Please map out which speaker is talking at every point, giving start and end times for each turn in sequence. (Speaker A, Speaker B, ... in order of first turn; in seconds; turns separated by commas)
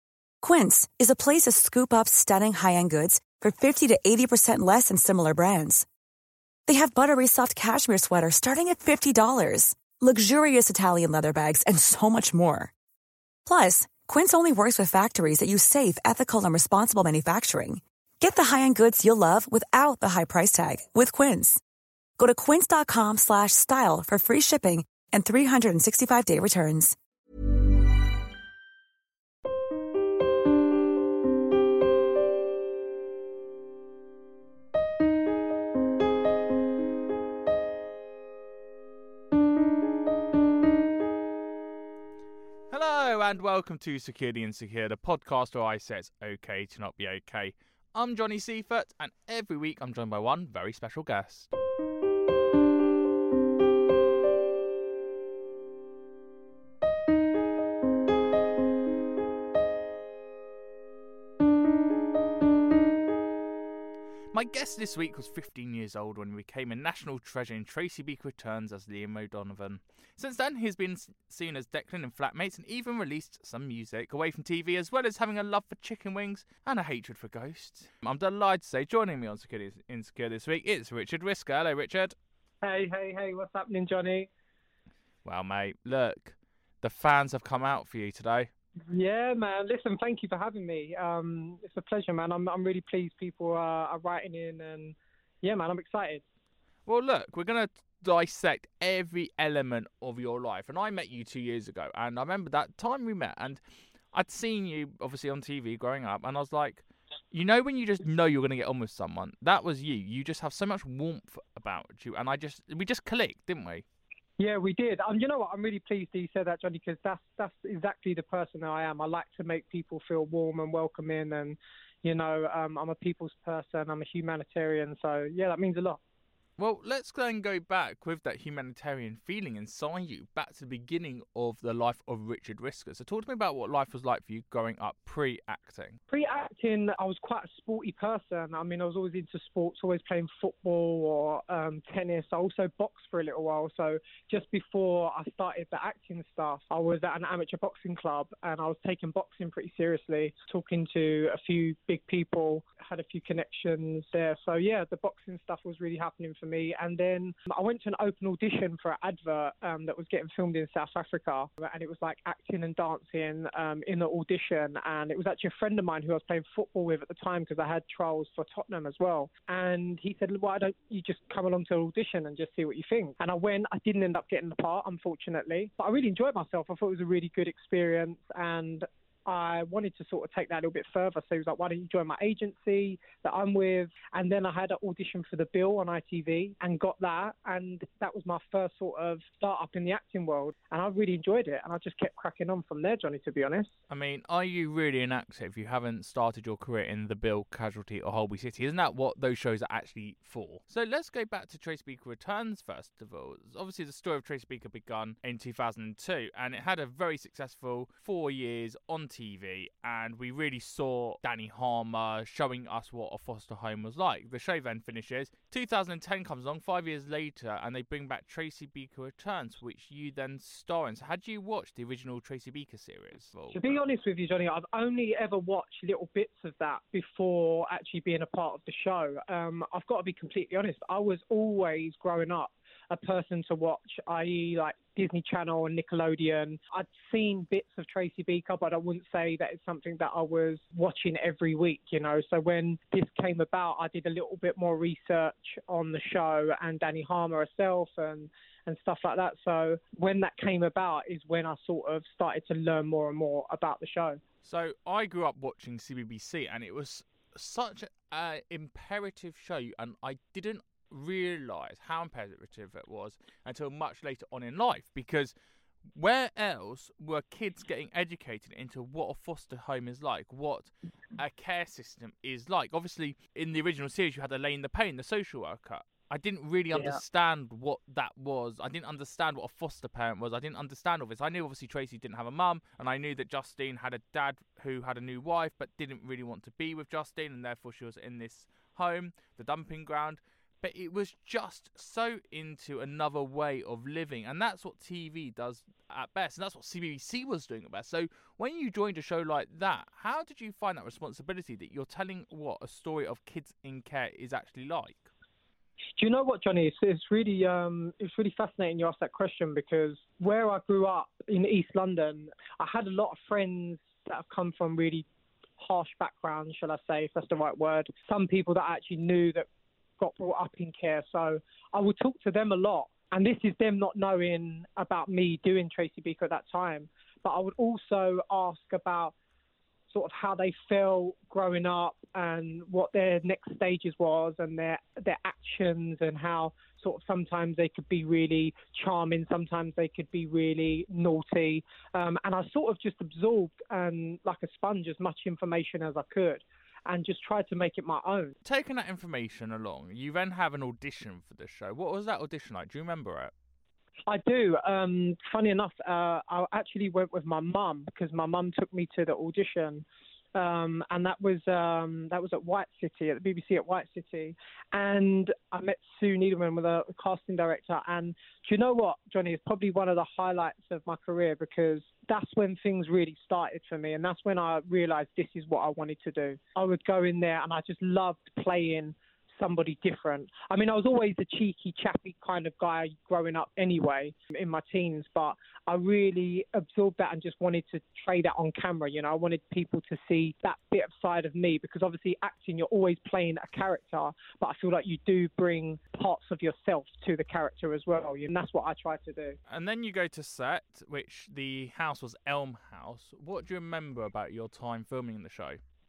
Speaker A: 0.4-5.9, Speaker A: 6.7-12.7, Speaker A: 13.4-21.6, Speaker A: 22.2-26.9, Speaker B: 42.7-51.5, Speaker B: 64.3-82.1, Speaker C: 82.6-84.3, Speaker B: 85.2-88.5, Speaker C: 88.9-96.2, Speaker B: 96.8-113.8, Speaker C: 114.4-126.0, Speaker B: 126.6-136.0, Speaker C: 136.1-193.7, Speaker B: 193.9-223.8, Speaker C: 223.5-254.2, Speaker B: 254.4-265.3, Speaker B: 265.9-305.1, Speaker C: 276.7-277.0, Speaker C: 306.0-315.1, Speaker C: 315.6-319.5, Speaker C: 320.0-329.1, Speaker C: 329.9-348.4, Speaker B: 348.4-353.3, Speaker C: 354.1-399.4, Speaker B: 399.5-405.6